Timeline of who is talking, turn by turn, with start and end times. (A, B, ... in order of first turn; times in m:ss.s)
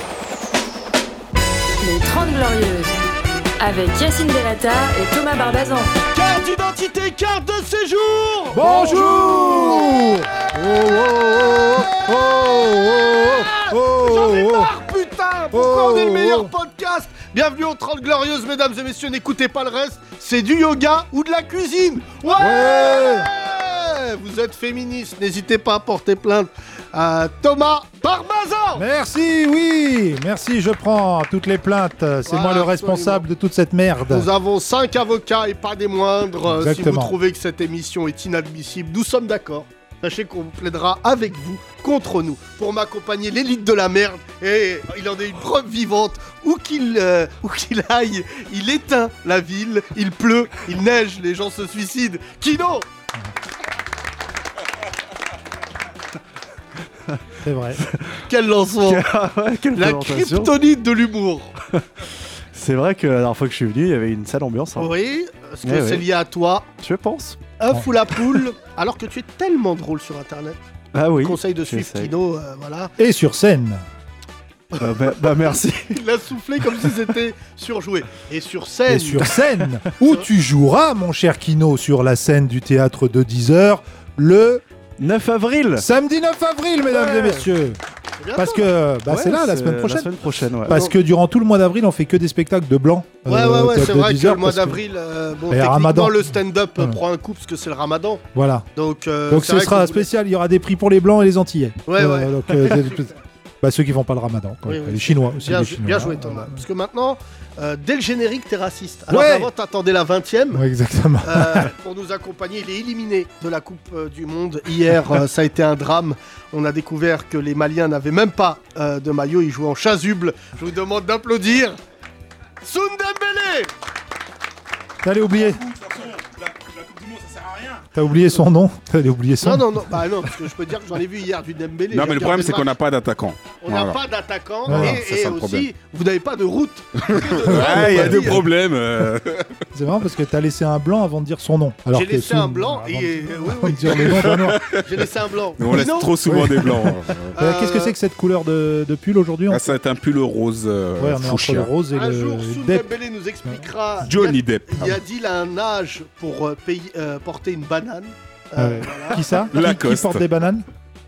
0:01.8-0:03.0 A
0:03.6-0:05.9 A
0:06.1-0:28.9 B
0:08.5-0:14.7 C
0:15.5-0:16.5 C
0:22.3-0:23.3 C
0:28.8-0:34.3 C
0:32.3-0:33.2 B
0:34.1-0:52.9 B
0:36.4-0:37.2 C
0:57.4-0:57.8 C
0:57.8-0:58.2 D
0:58.3-0:59.0 B
0:58.8-1:00.6 D
0:59.8-1:01.5 B
1:01.7-1:04.9 D
1:04.8-1:06.7 B
1:05.6-1:06.1 D
1:06.8-1:07.4 D
1:07.6-1:10.6 B
1:10.9-1:12.2 D
1:11.2-1:12.9 B
1:13.0-1:13.8 C
1:14.8-1:16.0 D
1:15.9-1:19.3 B
1:18.9-1:24.6 C
1:25.0-1:25.9 D
1:25.8-1:27.8 C
1:27.0-1:27.4 D
1:28.2-1:28.7 B
1:28.4-1:30.1 C
1:29.1-1:30.8 D
1:30.7-1:34.8 C
1:33.3-1:38.2 B
1:35.5-1:37.0 C
1:38.3-1:38.7 C
1:38.8-1:40.1 B
1:39.3-1:46.6 C
1:41.9-1:43.1 B
1:44.7-1:50.6 B
1:49.1-1:49.5 C
1:50.5-1:51.7 C
1:51.2-2:01.8 B
2:02.6-2:03.7 B
2:05.0-2:05.6 C
2:05.6-2:07.8 E
2:07.9-2:10.2 C
2:09.4-2:12.7 B
2:11.9-2:14.0 E
2:13.6-2:18.5 B
2:14.6-2:15.7 E
2:14.7-2:15.0 C
2:17.1-2:19.6 E
2:17.5-2:18.4 C
2:19.7-2:24.8 C
2:21.9-2:26.1 B
2:24.2-2:24.8 E
2:25.6-2:27.4 E
2:26.2-2:29.7 C
2:27.4-2:27.9 B
2:29.5-2:31.7 E
2:31.0-2:32.9 C
2:31.9-2:39.5 B
2:34.0-2:35.0 E
2:38.6-2:40.7 C
2:39.5-2:40.2 E